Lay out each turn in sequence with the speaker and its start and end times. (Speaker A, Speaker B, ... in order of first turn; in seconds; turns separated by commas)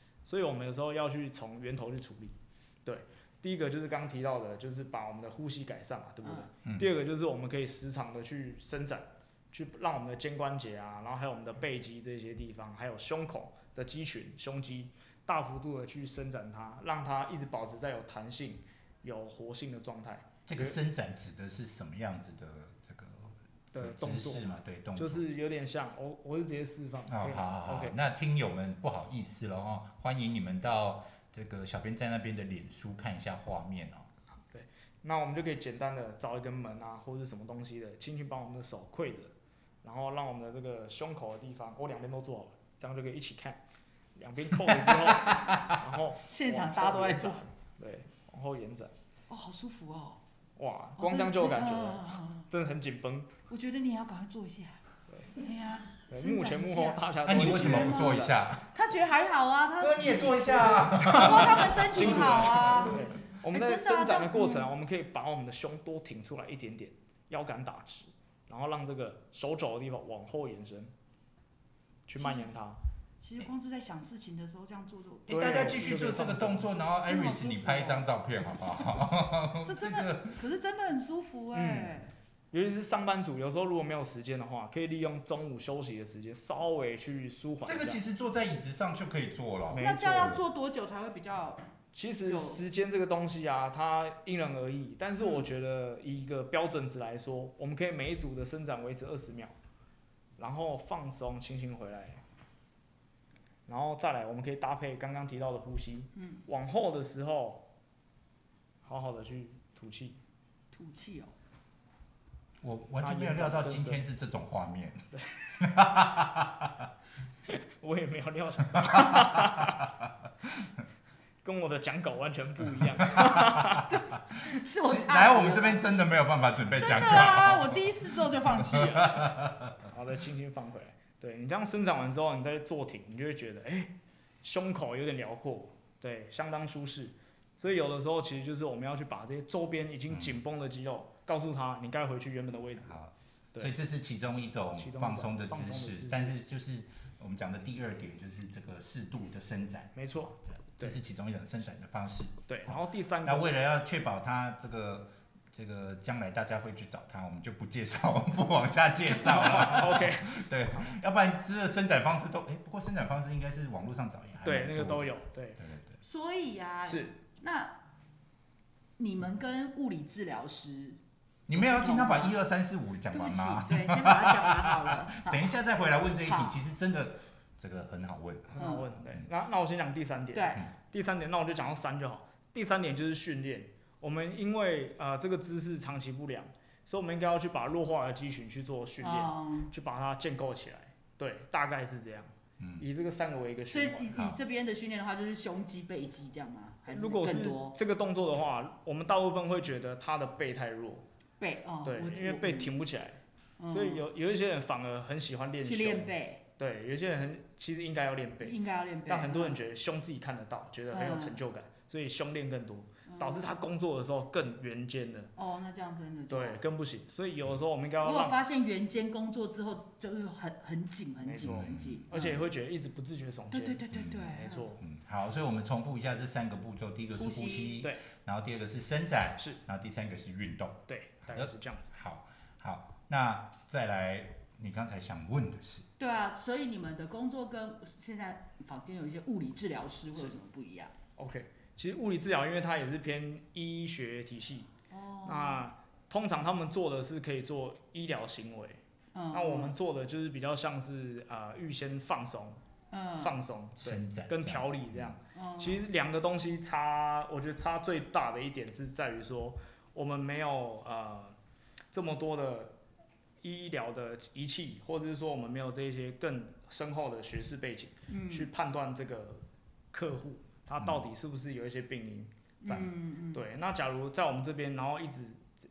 Speaker A: 0.2-20.8, Speaker B: 6.2-6.5, Speaker C: 20.4-25.2, Speaker A: 23.7-27.9, Speaker C: 27.1-34.1, Speaker A: 34.5-43.6, Speaker A: 44.1-48.9, Speaker B: 46.3-47.4, Speaker B: 49.3-50.2, Speaker A: 50.6-53.3, Speaker B: 51.0-52.5, Speaker B: 53.5-54.8, Speaker B: 55.3-64.7, Speaker A: 56.1-58.3, Speaker C: 57.2-58.7, Speaker C: 59.8-63.0, Speaker A: 61.0-70.9, Speaker A: 72.1-72.8, Speaker B: 72.2-72.5, Speaker B: 73.2-76.3, Speaker A: 75.3-76.7, Speaker C: 75.3-80.4, Speaker B: 77.0-78.0, Speaker B: 79.6-82.1, Speaker A: 81.5-82.0, Speaker A: 82.5-88.0, Speaker C: 87.6-90.4, Speaker A: 89.7-90.3, Speaker B: 89.8-91.6, Speaker A: 91.9-99.5, Speaker B: 92.3-92.6, Speaker A: 100.4-102.2, Speaker A: 103.7-107.6, Speaker A: 108.8-110.2, Speaker B: 110.7-111.3, Speaker C: 112.6-116.8, Speaker A: 113.0-114.0, Speaker A: 117.5-119.8, Speaker A: 121.4-123.9, Speaker B: 123.9-125.9, Speaker C: 124.8-129.8, Speaker B: 126.7-129.3, Speaker A: 129.9-143.0, Speaker C: 140.1-140.3, Speaker C: 142.8-166.0, Speaker A: 144.8-146.3, Speaker A: 149.9-151.0, Speaker A: 152.5-153.5, Speaker A: 159.2-160.8, Speaker A: 164.4-165.6, Speaker B: 166.0-167.7, Speaker A: 166.9-167.1, Speaker B: 169.0-171.0, Speaker C: 171.5-179.2, Speaker B: 171.5-172.4, Speaker B: 173.1-175.5, Speaker B: 176.2-176.6, Speaker A: 178.5-194.2, Speaker B: 178.6-178.9, Speaker B: 180.3-180.6, Speaker B: 189.0-189.7, Speaker C: 192.6-192.8, Speaker B: 193.7-197.8, Speaker C: 194.1-194.4, Speaker A: 196.9-201.0, Speaker B: 201.4-202.8, Speaker A: 201.8-215.3, Speaker B: 203.6-204.0, Speaker B: 205.6-206.4, Speaker B: 208.4-209.6, Speaker B: 210.9-211.4, Speaker B: 213.1-213.4, Speaker B: 215.4-216.6, Speaker A: 216.3-218.4, Speaker B: 218.0-222.4, Speaker A: 221.2-224.8, Speaker C: 221.5-222.0, Speaker B: 223.5-224.7, Speaker C: 223.9-235.8, Speaker B: 227.2-227.8, Speaker A: 230.9-231.9, Speaker B: 236.0-240.9, Speaker A: 241.2-244.7, Speaker B: 244.9-245.6, Speaker A: 245.2-252.6, Speaker B: 249.1-249.7, Speaker B: 252.9-253.3, Speaker A: 253.2-261.3, Speaker C: 253.8-255.2, Speaker B: 255.3-255.8, Speaker A: 261.9-262.7, Speaker A: 263.4-275.5, Speaker B: 268.1-268.5, Speaker B: 272.6-273.4